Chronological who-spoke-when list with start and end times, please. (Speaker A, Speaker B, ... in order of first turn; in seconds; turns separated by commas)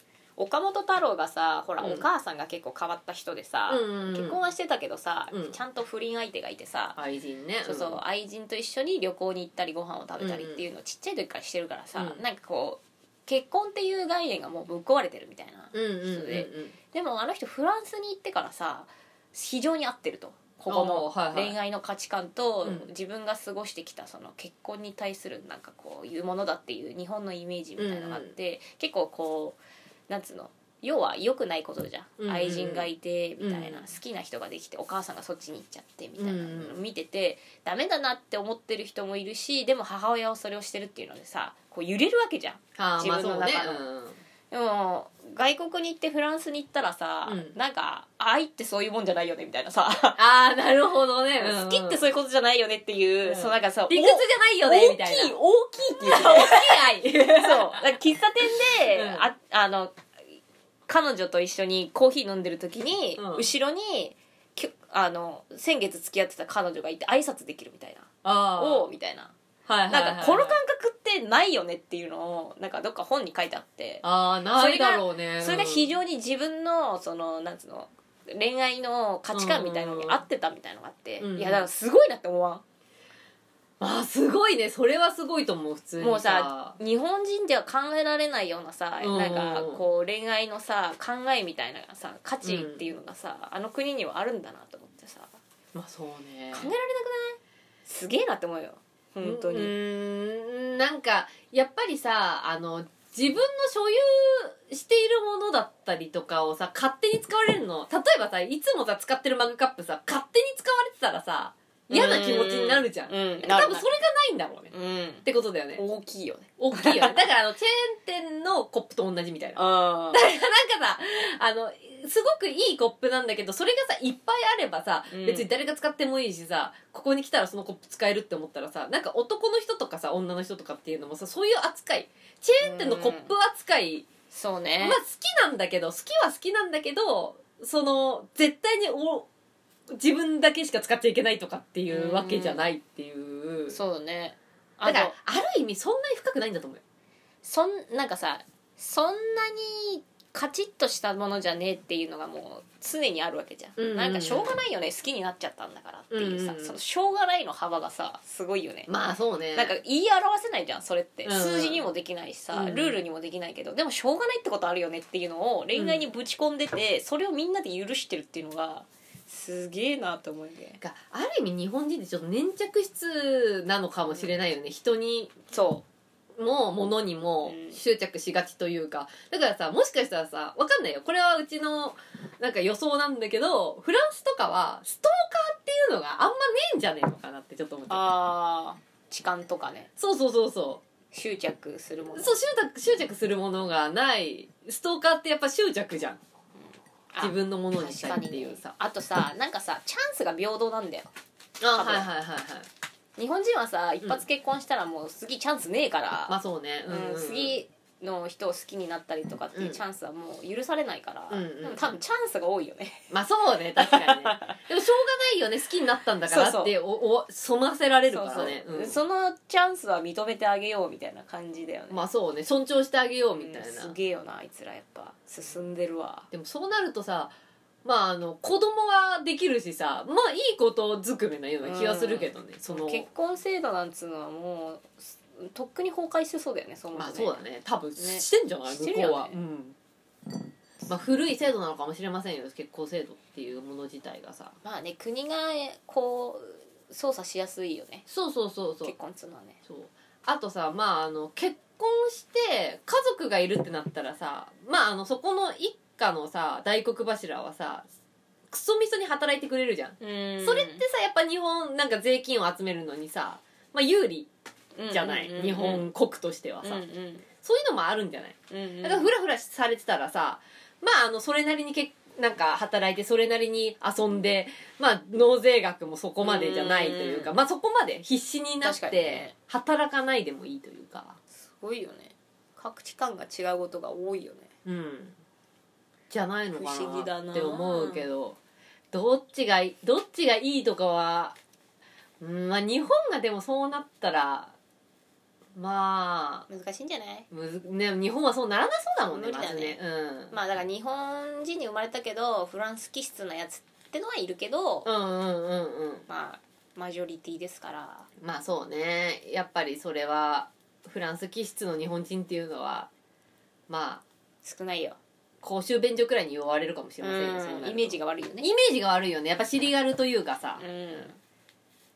Speaker A: 0.4-7.0, Speaker B: 1.8-2.0, Speaker B: 3.7-4.4, Speaker B: 5.3-5.6, Speaker B: 7.0-8.0, Speaker A: 7.6-43.8, Speaker B: 10.2-10.6, Speaker B: 11.9-12.2, Speaker B: 15.7-16.7, Speaker B: 20.7-21.6, Speaker B: 22.6-22.9, Speaker B: 27.8-28.3, Speaker B: 32.2-33.9, Speaker B: 36.2-36.8, Speaker B: 42.8-44.2, Speaker A: 44.5-50.2, Speaker B: 47.2-47.5, Speaker B: 50.2-52.0, Speaker A: 51.4-60.0, Speaker B: 53.2-55.3, Speaker B: 56.0-57.9, Speaker B: 58.6-59.3, Speaker A: 60.9-69.3, Speaker B: 63.2-63.5, Speaker B: 68.2-68.9, Speaker B: 69.7-70.6, Speaker A: 69.9-82.6, Speaker B: 74.0-75.9, Speaker B: 79.3-80.2, Speaker B: 81.2-81.7, Speaker B: 83.8-86.8, Speaker A: 86.0-95.3, Speaker B: 89.0-89.8, Speaker B: 92.4-92.8, Speaker B: 95.7-96.7, Speaker A: 96.5-99.7, Speaker B: 99.2-114.7, Speaker A: 111.9-113.9, Speaker A: 114.7-117.2, Speaker B: 115.2-115.8, Speaker B: 116.6-134.1, Speaker A: 119.5-120.2, Speaker A: 125.1-125.5, Speaker A: 132.6-133.3, Speaker A: 134.3-135.0, Speaker B: 134.8-139.3, Speaker B: 139.9-143.8, Speaker A: 141.9-142.7, Speaker A: 143.7-145.1, Speaker B: 144.8-146.8, Speaker A: 147.4-158.9, Speaker B: 153.8-154.5, Speaker B: 156.1-156.8, Speaker B: 158.9-159.7, Speaker A: 159.5-170.8, Speaker B: 161.2-161.8, Speaker B: 162.5-163.0, Speaker B: 165.7-166.1, Speaker B: 170.8-175.3, Speaker A: 175.5-175.8, Speaker B: 176.3-188.1, Speaker A: 177.4-177.8, Speaker A: 187.9-189.9, Speaker B: 190.0-190.8, Speaker A: 191.1-192.4, Speaker B: 192.1-196.2, Speaker A: 197.1-201.1, Speaker B: 197.2-198.7, Speaker B: 201.6-202.7, Speaker A: 201.7-202.1, Speaker A: 203.2-206.3, Speaker B: 206.3-207.6, Speaker A: 206.9-213.0, Speaker B: 209.5-209.8, Speaker B: 211.3-212.0, Speaker B: 213.1-219.0, Speaker A: 213.8-214.6, Speaker A: 216.3-216.7, Speaker A: 218.1-222.0, Speaker B: 221.9-223.9, Speaker A: 223.4-226.3, Speaker B: 226.3-227.3, Speaker B: 227.8-233.1, Speaker A: 231.6-237.4, Speaker B: 236.9-239.8, Speaker A: 238.0-239.4, Speaker B: 240.8-244.6, Speaker A: 244.6-248.1, Speaker B: 248.1-248.9, Speaker A: 248.8-249.6, Speaker B: 249.7-257.9, Speaker B: 258.5-264.3, Speaker A: 260.0-260.8, Speaker A: 264.8-265.9, Speaker B: 264.9-266.8, Speaker A: 266.6-267.2, Speaker B: 267.4-281.2, Speaker A: 268.5-269.1, Speaker A: 276.2-277.3, Speaker A: 278.6-279.3, Speaker A: 281.4-284.5, Speaker B: 284.6-285.1, Speaker B: 286.1-288.4, Speaker A: 286.5-288.1, Speaker B: 288.9-291.4, Speaker B: 292.2-294.5, Speaker B: 295.5-296.5, Speaker A: 296.5-297.3, Speaker B: 297.3-300.4, Speaker A: 299.1-299.8, Speaker A: 300.3-304.9, Speaker B: 304.8-306.1, Speaker A: 306.1-308.1, Speaker B: 308.2-312.9, Speaker B: 313.7-314.0, Speaker A: 314.4-315.0, Speaker B: 315.4-321.1, Speaker A: 317.0-318.5, Speaker A: 320.6-321.2